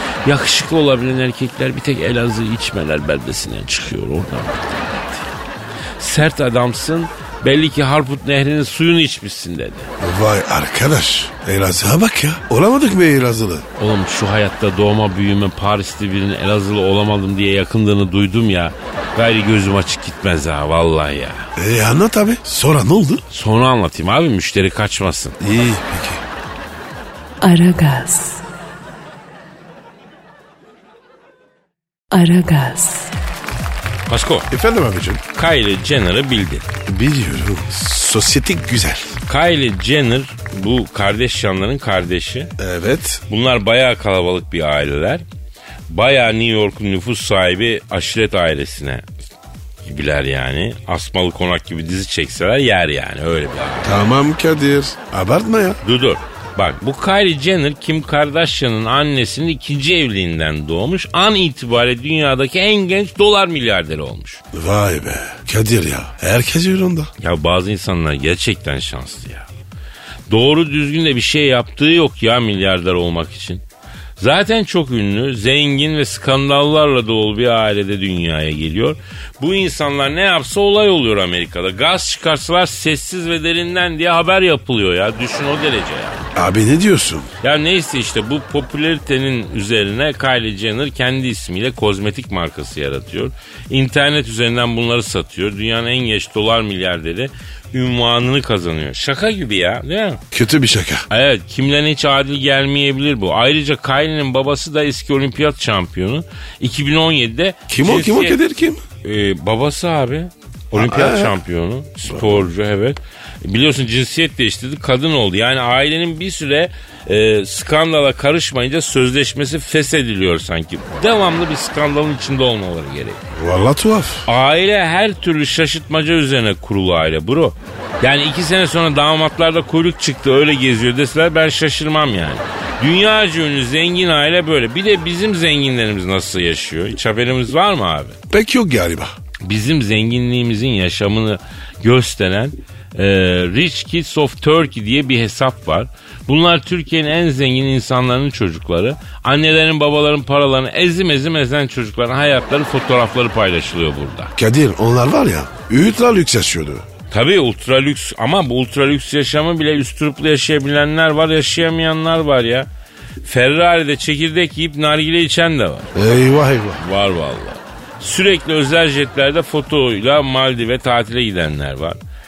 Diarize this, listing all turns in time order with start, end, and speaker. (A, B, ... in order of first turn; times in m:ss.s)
0:00.2-0:05.3 A
0:06.0-0:09.9 A
0:10.0-0:13.7 B
0:13.8-0:21.5 A
0:21.6-0:23.2 B
0:23.3-0:25.4 A
0:25.4-0:26.2 B
0:27.4-0:28.4 C
0:32.1-0:33.1 C
0:34.1-0:34.5 A
0:34.5-0:35.2 B
0:35.4-0:36.7 A
0:36.9-0:39.2 B
0:39.3-0:42.5 A
0:42.6-0:43.2 B
0:43.3-0:45.2 A
0:45.9-0:49.1 A
0:49.8-0:54.0 A
0:53.8-0:55.8 B
0:55.8-1:04.4 A
1:04.5-1:07.1 B
1:07.2-1:09.5 A
1:10.3-1:13.6 A
1:14.2-1:26.3 A
1:26.4-1:27.3 B
1:27.4-1:40.2 A
1:40.3-1:41.1 B
1:41.1-1:48.4 A
1:47.7-1:48.8 B
1:49.0-2:03.2 A
1:50.7-1:51.4 B
1:52.1-1:52.5 B
2:03.3-2:04.3 B
2:04.3-2:18.2 A
2:18.3-2:19.1 B
2:19.4-2:34.3 A
2:34.4-2:36.8 B
2:37.1-2:42.7 A
2:43.2-2:45.9 A
2:46.0-2:46.8 B
2:46.8-2:52.0 A